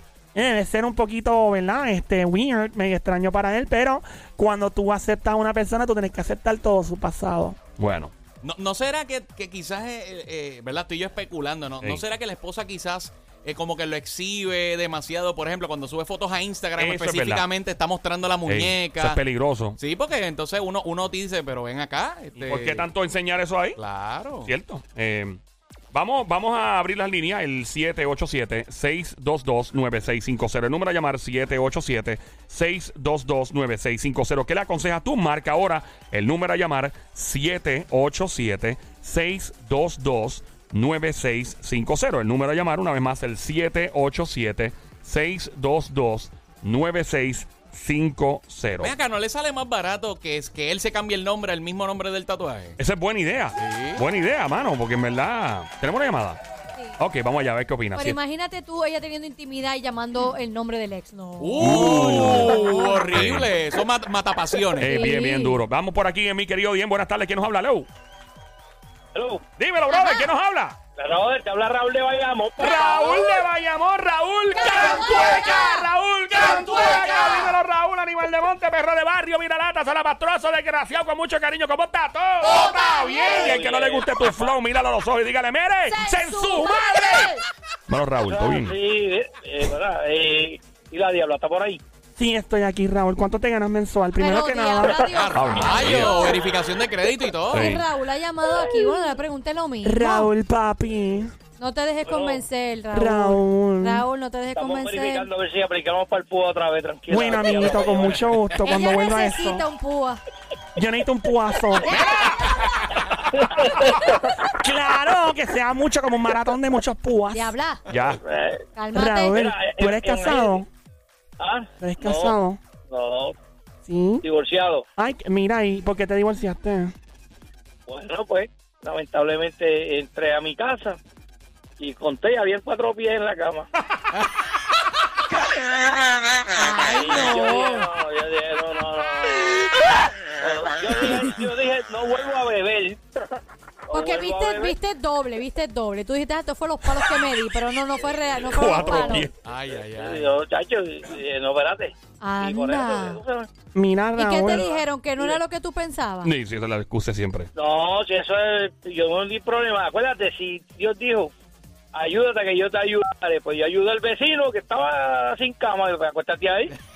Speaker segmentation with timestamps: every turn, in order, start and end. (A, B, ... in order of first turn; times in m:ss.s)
0:00.4-0:07.6 A
0:07.8-0:08.1 B
0:08.4-0:19.2 C
0:16.8-0:17.5 B
0:18.5-0:19.8 B
0:19.8-0:22.9 C
0:22.4-0:23.8 B
0:23.8-0:24.5 C
0:24.4-0:25.4 B
0:25.9-0:48.9 B
0:48.8-0:52.8 C
0:52.8-0:56.4 B
0:53.6-0:54.0 C
0:57.0-0:58.2 B
0:57.9-1:03.1 D
1:01.4-1:05.0 C
1:01.6-1:03.5 B
1:04.8-1:07.9 B
1:04.8-1:05.6 D
1:09.1-1:09.5 E
1:09.6-1:10.8 B
1:09.9-1:10.3 D
1:11.0-1:13.3 E
1:12.6-1:27.3 B
1:14.5-1:17.6 D
1:22.4-1:23.6 D
1:23.2-1:24.5 E
1:25.9-1:27.4 D
1:27.9-1:28.8 B
1:28.2-1:31.8 E
1:32.2-1:35.1 A
1:34.2-1:36.4 D
1:35.1-1:37.7 C
1:35.3-1:36.3 B
1:37.5-1:37.8 B
1:37.5-1:40.3 D
1:39.8-1:41.3 A
1:41.6-1:45.3 D
1:42.1-1:42.4 E
1:42.9-1:44.0 A
1:44.6-1:48.3 E
1:47.1-1:49.6 A
1:48.6-1:50.2 D
1:50.8-1:52.1 A
1:51.8-1:52.4 D
1:53.3-1:54.2 E
1:54.4-1:57.6 A
1:57.3-1:57.9 D
1:57.9-1:58.2 B
1:58.2-1:58.6 E
1:58.8-1:59.4 D
1:58.9-2:00.7 A
1:59.3-2:00.6 E
2:01.4-2:02.4 E
2:01.8-2:02.6 A
2:02.9-2:03.4 E
2:03.9-2:04.2 A
2:04.2-2:04.8 E
2:05.0-2:06.9 A
2:07.9-2:11.0 E
2:11.8-2:13.7 E
2:16.5-2:17.9 D
2:16.8-2:19.8 E
2:20.4-2:23.0 E
2:23.9-2:24.8 E
2:23.9-2:29.3 D
2:28.4-2:29.3 B
2:29.4-2:30.4 C
2:30.0-2:33.5 E
2:32.2-2:33.2 D
2:33.7-2:34.7 A
2:34.2-2:36.3 D
2:36.2-2:37.5 B
2:37.6-2:41.3 E
2:41.9-2:46.8 E